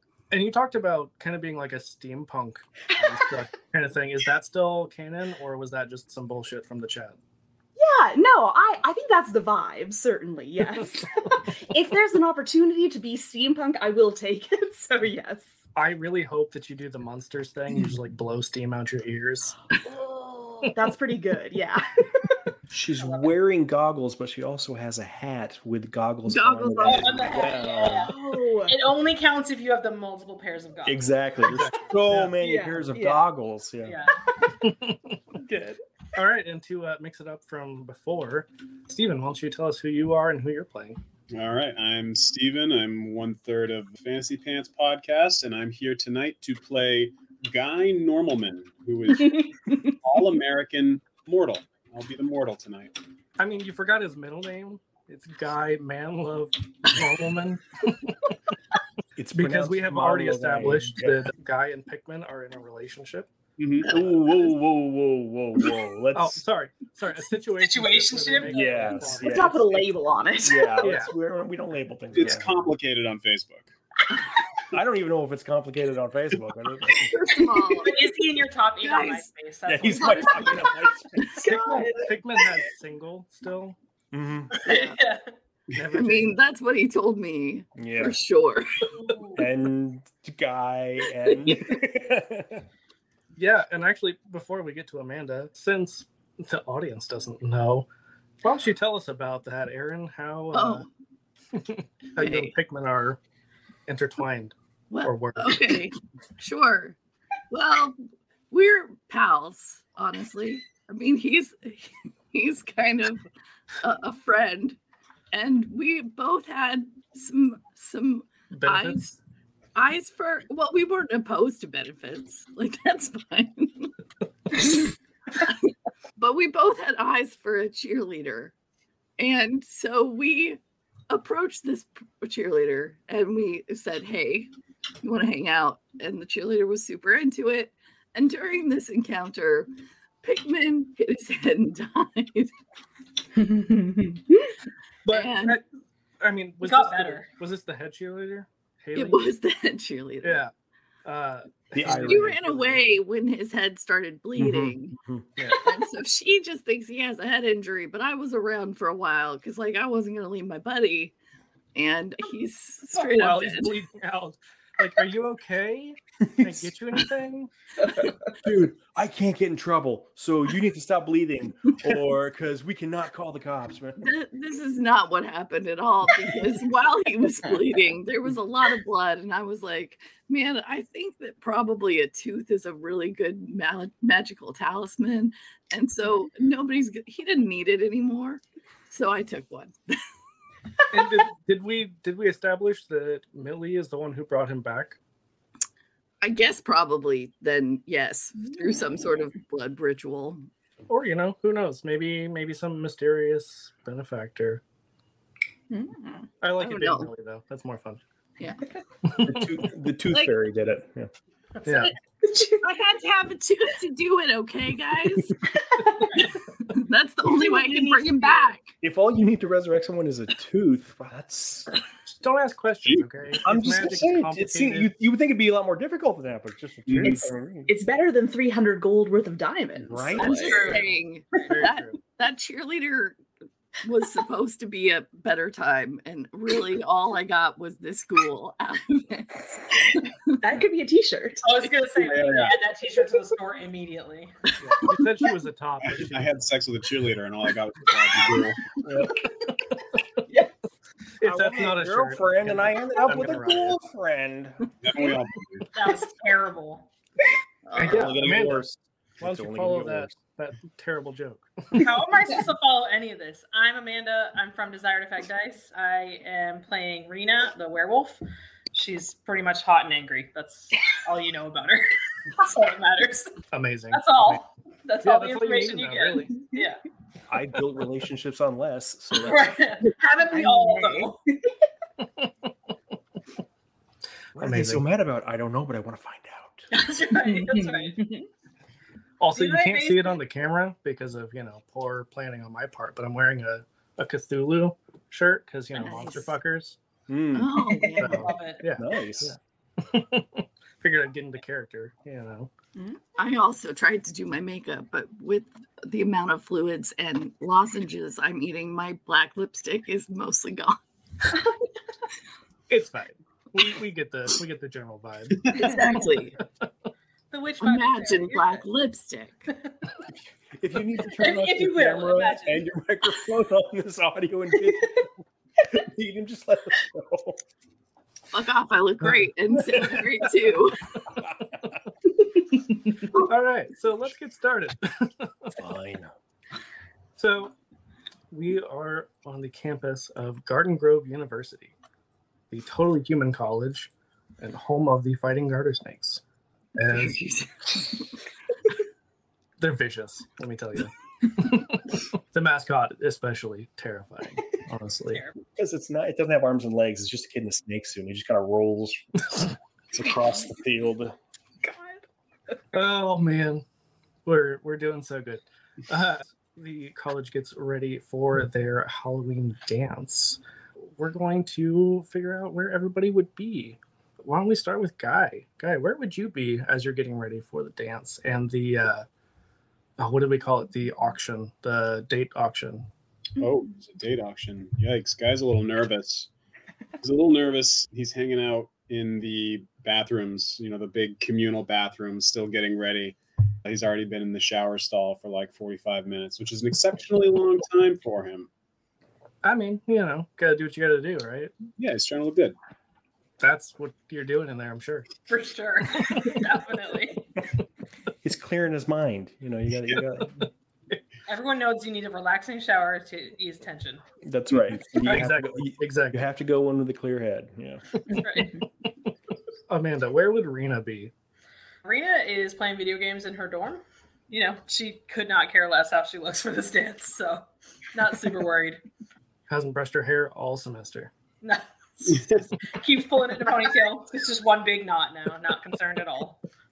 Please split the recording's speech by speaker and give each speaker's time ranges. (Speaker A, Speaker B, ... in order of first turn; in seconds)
Speaker A: 0.3-7.2, 15.8-19.6, 31.4-32.4, 34.6-41.0, 53.4-58.4, 59.4-63.3, 66.1-69.6, 70.8-71.1, 81.4-83.8, 85.7-86.4, 93.3-97.9, 98.4-100.9, 101.5-103.2, 103.9-105.8, 118.5-119.2, 145.1-145.6, 146.2-149.2, 150.2-150.5, 151.1-152.8, 155.4-155.8, 163.1-167.5, 190.9-195.0, 200.9-204.6, 206.4-208.0, 209.1-209.5, 211.7-211.9, 222.1-224.9, 231.5-232.0, 244.6-246.5, 251.2-253.8, 257.7-258.6, 259.2-261.9, 273.5-274.4, 275.0-276.5, 282.0-282.5, 284.3-284.9, 289.2-296.8, 298.0-302.5, 312.7-316.7, 329.0-330.1, 333.0-335.5, 337.2-337.6, 338.3-341.7, 342.5-346.2, 346.8-347.2, 349.6-355.2, 362.7-363.6, 364.2-370.4, 371.0-379.1, 380.0-382.9, 399.4-401.5, 403.4-405.1, 406.0-406.4, 410.4-411.0, 415.0-416.2, 419.7-421.1, 429.5-431.1
Speaker B: 7.8-15.5, 20.1-22.4, 28.0-28.8, 32.4-33.2, 49.3-49.7, 69.2-70.9, 81.4-82.4, 143.3-144.5, 205.7-206.3, 212.2-212.6, 215.7-216.1, 217.4-218.5, 227.1-230.8, 240.4-241.5, 280.2-281.1, 287.1-288.3, 297.6-298.4, 361.6-362.0
Speaker C: 22.7-28.1, 30.9-34.0, 59.2-61.3, 63.9-66.4, 68.5-69.9, 70.4-72.7, 74.7-77.2, 79.7-81.5, 84.1-84.5, 87.8-88.2, 89.3-92.6, 151.8-152.5, 154.4-155.3, 166.4-166.7, 168.4-174.1, 209.2-211.1, 218.8-221.7, 223.4-227.7, 229.8-230.8, 248.9-249.3, 251.2-254.7, 257.9-260.2, 277.3-279.8, 284.4-286.7, 297.1-297.8, 298.8-299.3, 320.6-325.1, 325.7-327.4, 331.1-331.6, 335.6-336.1, 355.6-361.2, 408.2-410.5, 414.2-417.9
Speaker D: 23.0-23.3, 26.8-31.1, 33.9-34.2, 67.6-69.1, 77.8-80.7, 84.6-85.3, 89.0-89.5, 146.6-147.3, 230.4-230.9, 241.4-244.5, 255.7-256.9, 261.8-273.4, 273.9-276.8, 279.2-281.2, 286.7-288.1, 289.3-290.2, 298.2-298.6, 317.3-318.6, 321.1-322.7, 355.1-355.4, 405.3-407.3, 411.3-414.0, 418.1-418.6, 421.8-428.8, 431.4-436.4
Speaker E: 26.3-27.4, 77.1-78.1, 78.8-79.3, 79.9-80.6, 81.2-81.4, 84.6-85.0, 85.9-88.8, 91.3-91.5, 100.5-100.9, 102.2-102.6, 104.9-107.0, 107.5-108.0, 108.5-113.2, 113.8-114.8, 115.3-119.1, 119.8-123.9, 124.5-128.5, 129.2-134.5, 135.0-139.7, 140.2-142.5, 145.1-145.6, 148.9-150.4, 152.0-161.1, 161.8-163.8, 174.0-190.0, 196.2-200.4, 206.6-207.1, 208.4-208.7, 210.1-210.4, 212.6-215.4, 216.7-218.7, 230.2-233.2, 233.8-240.1, 257.7-258.1, 295.8-296.4, 297.3-298.3, 303.2-310.8, 315.5-316.4, 317.6-319.5, 328.3-330.8, 346.9-348.1
Speaker F: 41.3-52.9, 63.6-64.0, 72.1-73.7, 222.8-223.3, 226.9-227.2, 242.0-242.6, 245.8-248.8, 254.8-255.7, 257.9-258.5, 383.4-386.3, 387.0-398.5, 401.8-402.6